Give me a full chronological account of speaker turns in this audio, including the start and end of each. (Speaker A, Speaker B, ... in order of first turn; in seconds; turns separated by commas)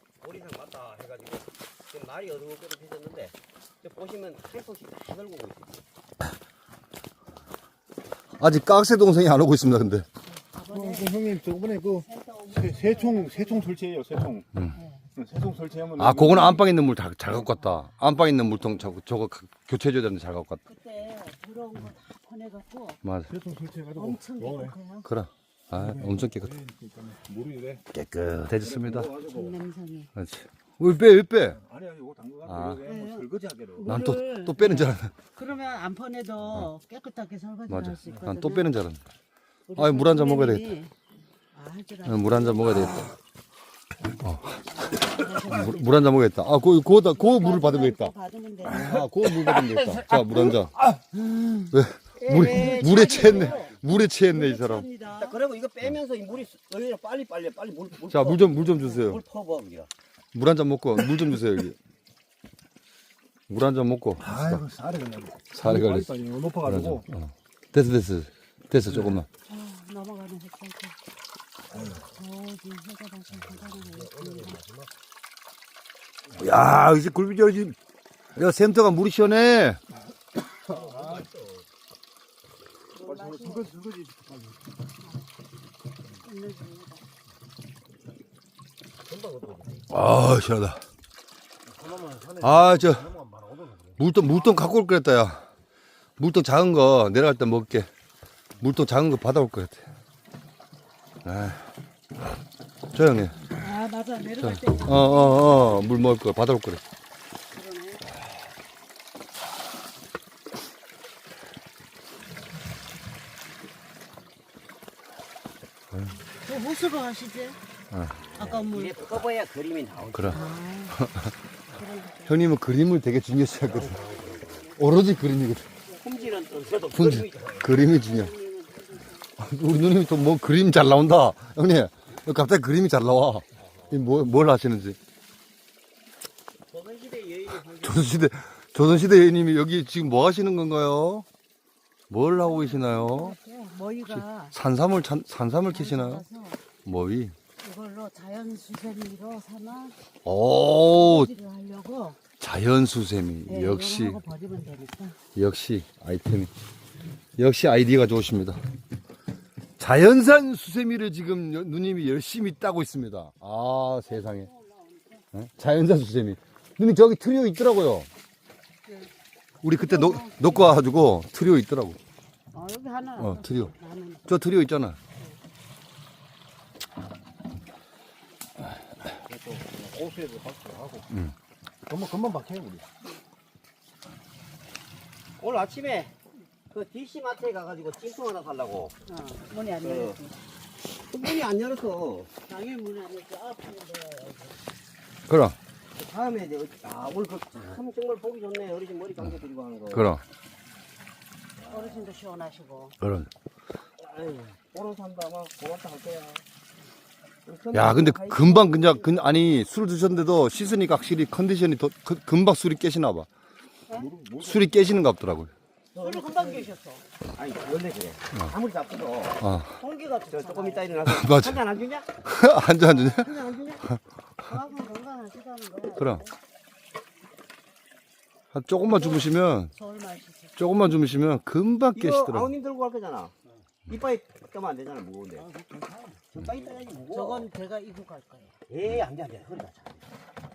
Speaker A: 0.2-5.8, Speaker B: 8.4-10.1, Speaker C: 10.2-11.2, Speaker D: 10.7-14.5, Speaker C: 11.9-13.8, Speaker C: 14.7-15.1, Speaker D: 15.2-16.6, Speaker B: 15.9-20.6, Speaker C: 20.6-23.0, Speaker B: 23.0-23.3, Speaker D: 23.3-24.7, Speaker C: 23.9-25.1, Speaker B: 25.0-26.6, Speaker D: 25.8-27.8, Speaker B: 27.9-29.1, Speaker A: 28.6-29.6, Speaker C: 29.3-30.1, Speaker B: 30.1-31.6, Speaker D: 31.6-33.9, Speaker B: 32.5-32.8, Speaker C: 32.8-38.7, Speaker B: 33.8-35.1, Speaker B: 37.7-39.0, Speaker C: 39.7-40.9, Speaker B: 39.8-40.7, Speaker C: 41.5-43.1, Speaker B: 42.0-43.1, Speaker B: 44.2-48.1, Speaker C: 44.7-45.9, Speaker C: 47.1-49.0, Speaker B: 48.7-50.8, Speaker C: 51.1-51.7, Speaker B: 51.7-54.9, Speaker A: 52.2-53.7, Speaker C: 52.3-55.4, Speaker A: 55.1-59.9, Speaker B: 58.1-59.2, Speaker B: 60.3-61.8, Speaker B: 63.5-64.6, Speaker D: 64.2-67.0, Speaker B: 65.5-69.3, Speaker C: 69.4-71.0, Speaker C: 71.7-74.6, Speaker A: 73.7-74.9, Speaker B: 76.3-77.8, Speaker B: 78.3-79.8, Speaker A: 80.7-81.7, Speaker C: 82.9-83.8, Speaker D: 83.1-84.3, Speaker C: 86.2-87.0, Speaker A: 89.0-89.9, Speaker B: 89.9-90.8, Speaker D: 91.8-92.2, Speaker B: 92.3-93.2, Speaker B: 94.0-95.5, Speaker B: 96.2-97.9, Speaker B: 98.6-99.9, Speaker B: 101.2-101.7, Speaker B: 102.9-103.4, Speaker C: 103.5-105.7, Speaker B: 104.4-106.8, Speaker C: 107.5-108.0, Speaker C: 116.3-117.6, Speaker A: 118.2-120.5, Speaker C: 118.3-119.2, Speaker B: 120.1-121.3, Speaker C: 120.3-121.0, Speaker C: 121.7-122.3, Speaker B: 122.2-124.0, Speaker A: 123.6-124.7, Speaker C: 124.0-124.6, Speaker B: 124.7-125.7, Speaker C: 125.8-126.4, Speaker A: 126.0-127.7, Speaker B: 126.9-128.3, Speaker C: 127.8-129.3, Speaker B: 129.4-135.0, Speaker A: 133.7-134.0, Speaker A: 136.7-138.3, Speaker B: 137.8-141.2, Speaker B: 142.1-143.3, Speaker C: 142.4-144.5, Speaker B: 144.1-146.2, Speaker C: 145.7-146.6, Speaker B: 146.8-147.3, Speaker C: 147.6-150.0, Speaker B: 150.2-151.3, Speaker C: 150.9-152.2, Speaker B: 152.4-154.2, Speaker C: 153.5-155.2, Speaker B: 155.3-156.5, Speaker B: 157.4-158.6, Speaker B: 159.8-164.5, Speaker C: 164.1-165.2, Speaker B: 165.3-168.1, Speaker C: 168.8-169.1, Speaker B: 169.6-172.0, Speaker C: 169.7-170.7, Speaker C: 172.5-174.3, Speaker B: 173.2-173.7, Speaker B: 174.3-175.0, Speaker D: 179.2-181.1, Speaker B: 181.1-181.3, Speaker D: 181.9-182.8, Speaker A: 185.4-186.1, Speaker A: 186.7-188.9, Speaker C: 189.1-190.3, Speaker A: 189.8-190.2, Speaker A: 190.9-192.3, Speaker C: 192.4-194.6, Speaker B: 195.3-195.6, Speaker A: 195.9-200.1, Speaker B: 199.9-200.2, Speaker C: 201.7-202.9, Speaker B: 203.0-203.3, Speaker A: 204.0-206.4, Speaker A: 207.4-209.1, Speaker B: 207.7-213.3, Speaker D: 213.9-214.7, Speaker B: 214.4-215.5, Speaker A: 215.9-216.7, Speaker C: 215.9-217.0, Speaker A: 217.3-219.4, Speaker B: 219.4-219.8, Speaker C: 219.8-221.0, Speaker A: 220.3-222.2, Speaker B: 221.0-221.6, Speaker B: 222.2-223.4, Speaker C: 222.8-223.8, Speaker C: 224.4-226.3, Speaker B: 226.0-226.2, Speaker B: 228.5-229.7, Speaker C: 228.8-230.7, Speaker B: 230.6-232.5, Speaker A: 231.9-233.3, Speaker A: 233.9-235.5, Speaker D: 235.6-236.0, Speaker A: 236.3-237.5, Speaker C: 237.1-238.6, Speaker A: 238.7-240.0